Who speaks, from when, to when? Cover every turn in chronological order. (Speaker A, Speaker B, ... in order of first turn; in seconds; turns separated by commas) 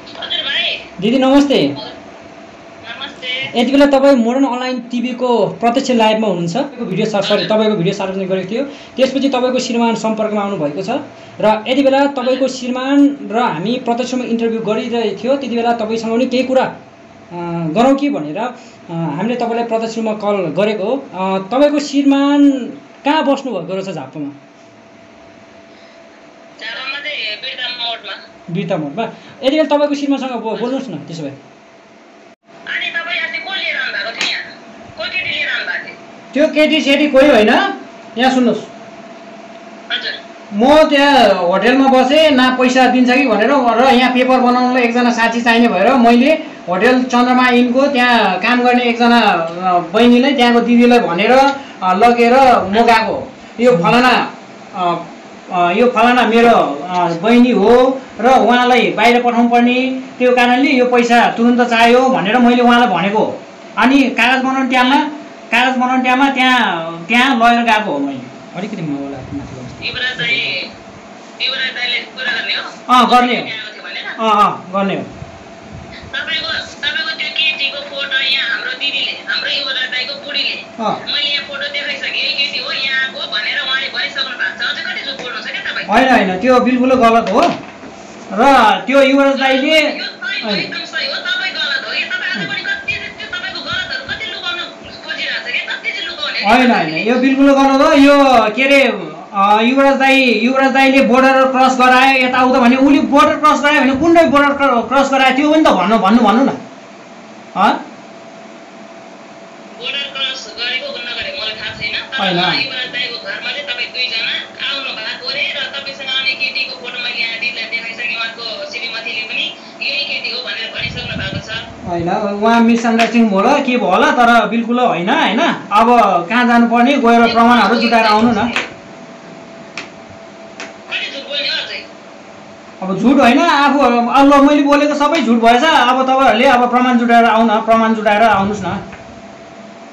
Speaker A: 0.2-0.8, Speaker B: 1.0-1.8, Speaker A: 2.8-3.4, Speaker B: 3.5-16.8, Speaker A: 7.2-7.5, Speaker A: 12.2-12.4, Speaker B: 17.3-24.4, Speaker A: 26.6-28.2, Speaker B: 28.5-31.4, Speaker A: 30.5-30.8, Speaker A: 32.7-34.4, Speaker A: 35.0-36.0, Speaker C: 36.3-38.7, Speaker A: 39.9-40.2, Speaker C: 40.5-68.3, Speaker A: 52.7-53.0, Speaker A: 64.7-65.0, Speaker B: 68.5-70.5, Speaker A: 69.8-70.6, Speaker A: 71.4-74.2, Speaker C: 72.9-73.5, Speaker C: 74.2-75.1, Speaker A: 76.1-86.0, Speaker C: 80.8-81.0, Speaker C: 85.9-87.5, Speaker C: 88.3-90.7, Speaker A: 89.3-97.2, Speaker C: 96.4-106.6, Speaker C: 107.5-107.8, Speaker A: 109.7-121.7, Speaker C: 112.2-112.6, Speaker C: 121.8-128.5, Speaker A: 127.2-128.7, Speaker A: 130.9-131.8, Speaker C: 132.8-138.8